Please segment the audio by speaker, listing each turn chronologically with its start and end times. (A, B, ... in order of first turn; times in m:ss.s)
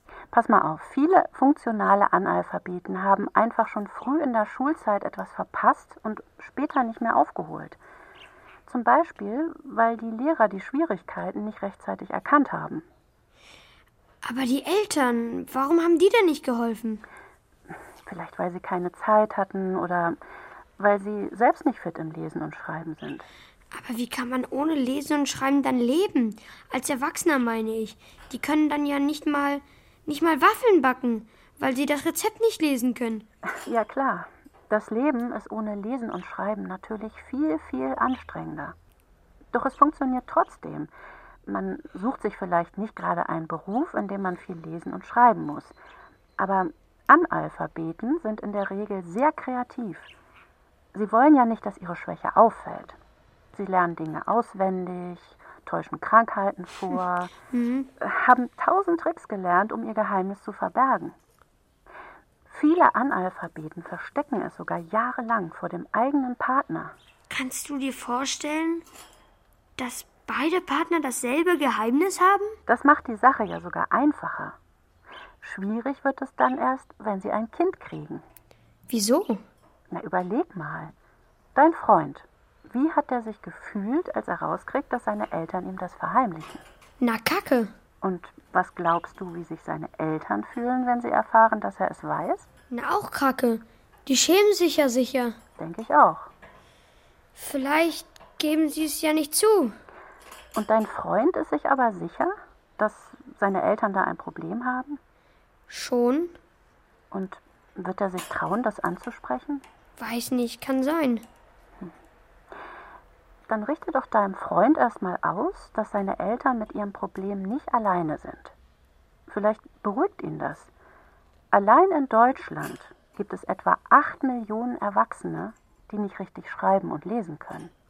0:00.3-0:07.8 A
0:08.7-0:12.8 A
0:14.2-0:17.0 B
0:17.7-0:20.2 A
0:20.8-0:23.3 A
0:23.7-0:33.2 B
0:33.5-0:38.8 A
0:39.5-0:40.9 A
0:41.4-0:45.8 A
0:46.4-0:50.1 A
0:50.9-0:53.0 A
0:53.5-0:57.3 A
0:57.5-0:57.9 B
0:58.0-1:01.2 A
1:02.5-1:06.9 A
1:07.3-1:08.8 B
1:09.8-1:12.6 B
1:12.7-1:14.6 A
1:15.4-1:18.2 A
1:18.9-1:19.4 B
1:19.9-1:20.9 A
1:21.5-1:26.6 A
1:27.0-1:27.7 B
1:28.0-1:32.5 A
1:32.7-1:35.4 B
1:35.6-1:36.3 A
1:37.4-1:39.7 B
1:40.5-1:45.0 A
1:45.7-1:46.3 B
1:47.1-1:49.6 A
1:50.0-1:51.2 B
1:53.5-1:58.5 A
1:59.3-2:00.7 A
2:01.5-2:07.7 A